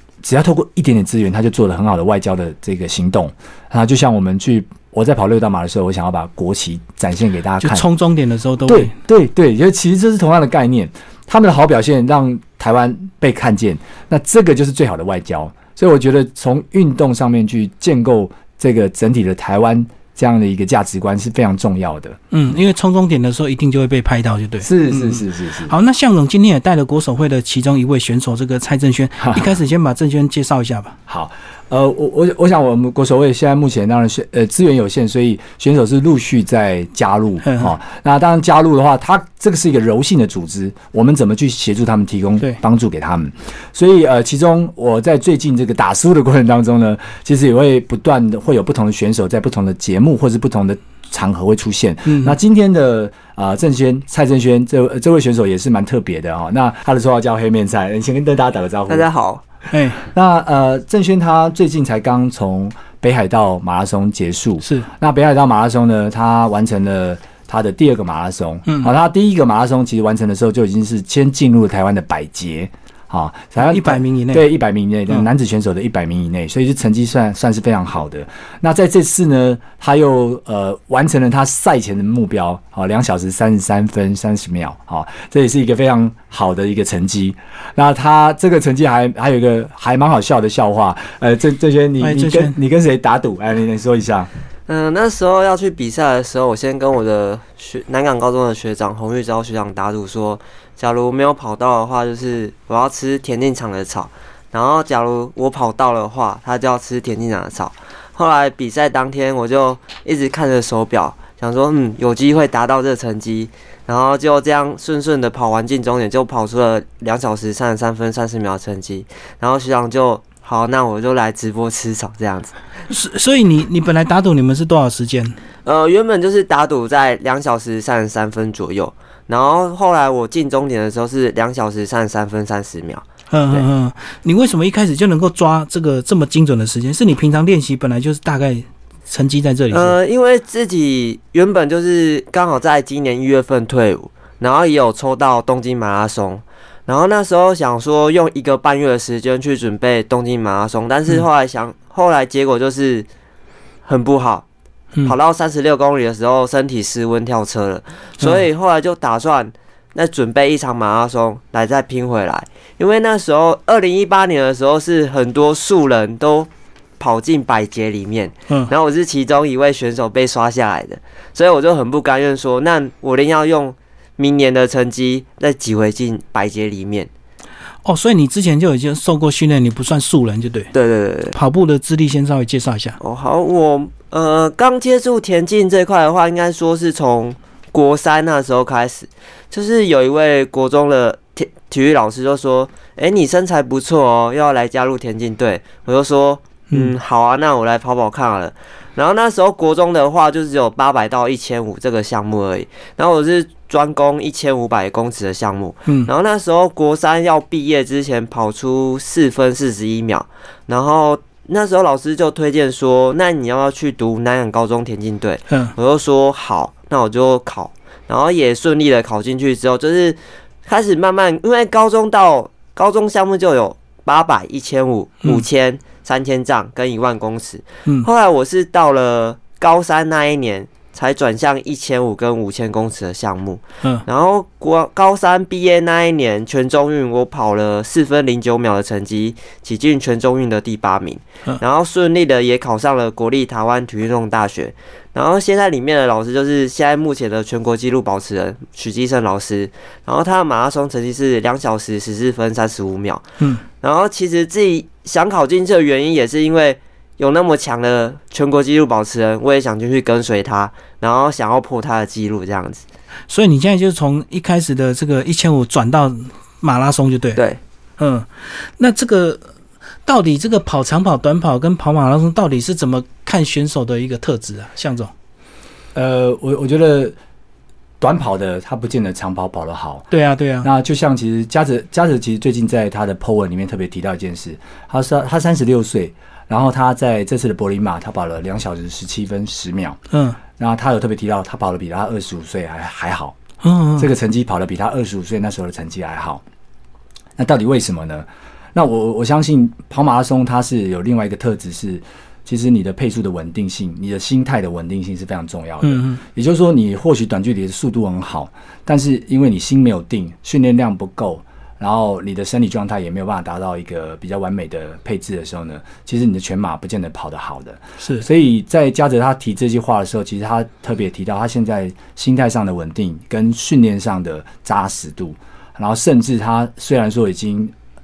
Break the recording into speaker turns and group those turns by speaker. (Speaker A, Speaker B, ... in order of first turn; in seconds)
Speaker A: 0.2-7.8, 8.6-22.2, 24.6-25.7, 29.2-29.5, 31.1-59.1, 60.0-94.3, 275.9-277.2, 278.0-280.1, 280.6-290.0, 290.6-293.4, 294.0-296.4, 297.4-327.7
Speaker B: 7.6-8.9, 22.3-31.0, 37.4-37.7, 52.0-52.4, 59.7-60.0, 64.6-64.9, 73.6-74.4, 92.0-92.5, 122.9-125.4, 133.3-139.9, 177.8-180.7, 181.3-183.0, 263.3-267.4, 268.0-269.5, 270.0-275.1, 280.1-280.7, 290.1-290.4, 293.6-294.1, 305.8-306.2, 318.0-318.2
Speaker C: 58.9-59.4, 94.7-122.5, 125.6-133.7, 139.7-153.1, 153.8-154.4, 155.0-177.1, 180.7-181.3, 183.0-253.2, 253.8-262.8